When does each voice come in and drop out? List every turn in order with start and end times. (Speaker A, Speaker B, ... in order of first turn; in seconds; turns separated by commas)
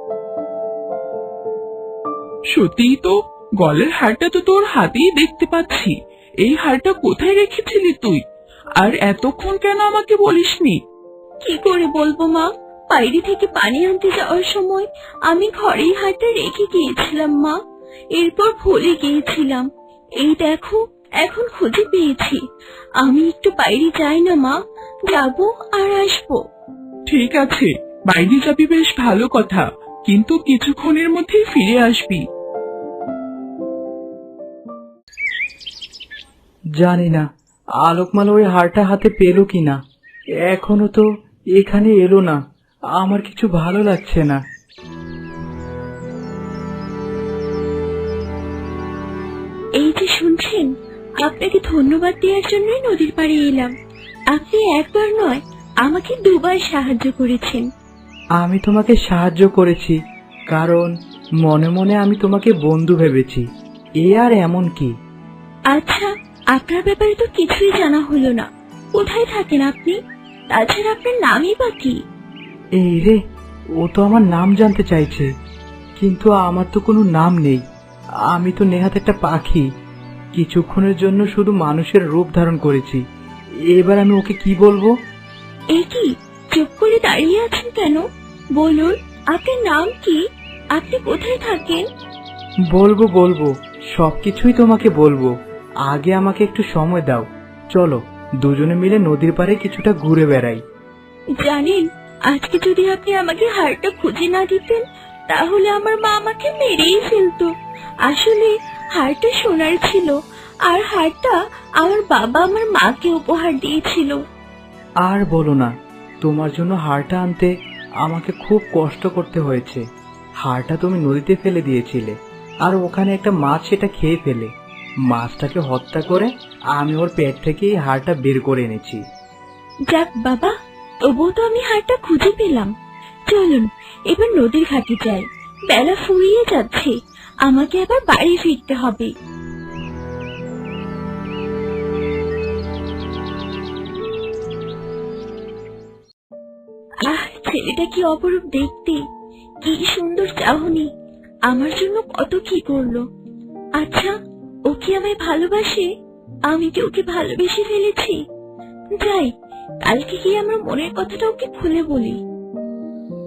Speaker A: 2.5-8.2, Speaker A: 8.8-10.8, Speaker B: 11.4-17.6, Speaker B: 18.2-19.7, Speaker B: 20.2-22.4, Speaker B: 23.0-24.6, Speaker B: 25.1-26.4, Speaker A: 27.1-32.2, Speaker C: 36.8-37.2, Speaker C: 37.8-39.8, Speaker C: 40.5-41.0, Speaker C: 41.6-42.4, Speaker C: 43.0-44.4, Speaker B: 49.8-50.7, Speaker B: 51.2-53.7, Speaker B: 54.3-57.7, Speaker C: 58.4-60.0, Speaker C: 60.5-60.9, Speaker C: 61.4-63.5, Speaker C: 64.0-64.9, Speaker B: 65.7-70.0, Speaker B: 70.5-72.0, Speaker C: 72.8-73.2, Speaker C: 73.8-75.3, Speaker C: 76.0-77.6, Speaker C: 78.3-79.7, Speaker C: 80.3-83.0, Speaker C: 83.7-84.9, Speaker B: 85.8-88.0, Speaker B: 88.6-90.2, Speaker B: 90.8-91.8, Speaker C: 92.7-95.3, Speaker C: 95.9-100.6, Speaker B: 101.4-107.5, Speaker B: 108.0-114.2, Speaker C: 115.0-115.7, Speaker C: 116.2-117.5, Speaker C: 118.1-119.8, Speaker C: 120.4-124.5, Speaker C: 125.1-129.0, Speaker B: 129.9-132.7, Speaker B: 133.3-139.1, Speaker B: 147.0-149.0, Speaker B: 149.6-150.9, Speaker B: 151.5-153.0, Speaker B: 153.8-154.1, Speaker B: 154.7-155.9, Speaker B: 156.5-158.2, Speaker B: 159.0-159.3, Speaker B: 159.8-162.2